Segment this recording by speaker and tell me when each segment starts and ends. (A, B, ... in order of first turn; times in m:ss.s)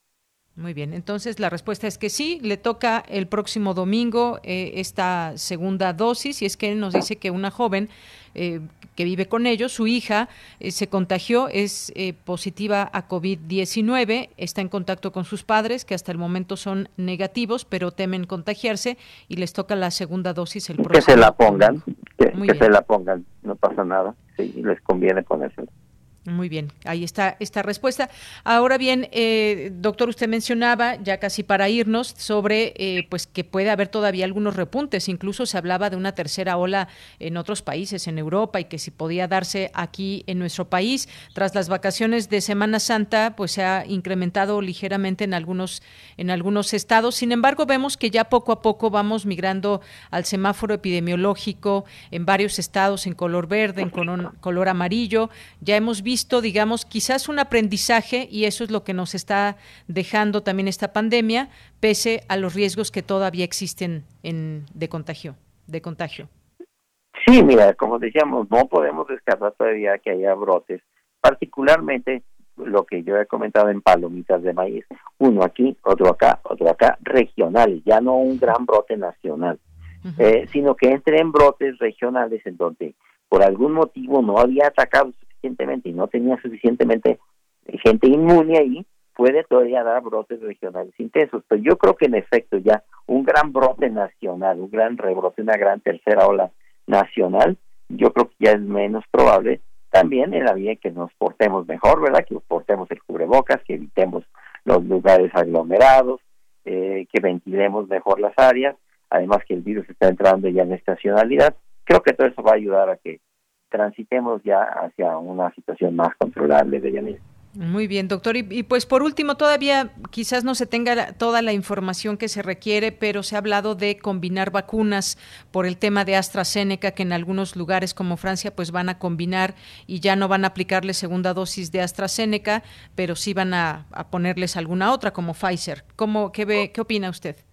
0:00.6-0:21.8 A
0:20.8-0:25.7 B
0:22.3-0:22.7 A
0:26.3-1:06.3 A
1:07.2-1:19.6 B
1:20.0-1:20.3 A
1:20.2-1:53.2 B
1:53.7-1:57.2 B
1:57.6-2:17.4 A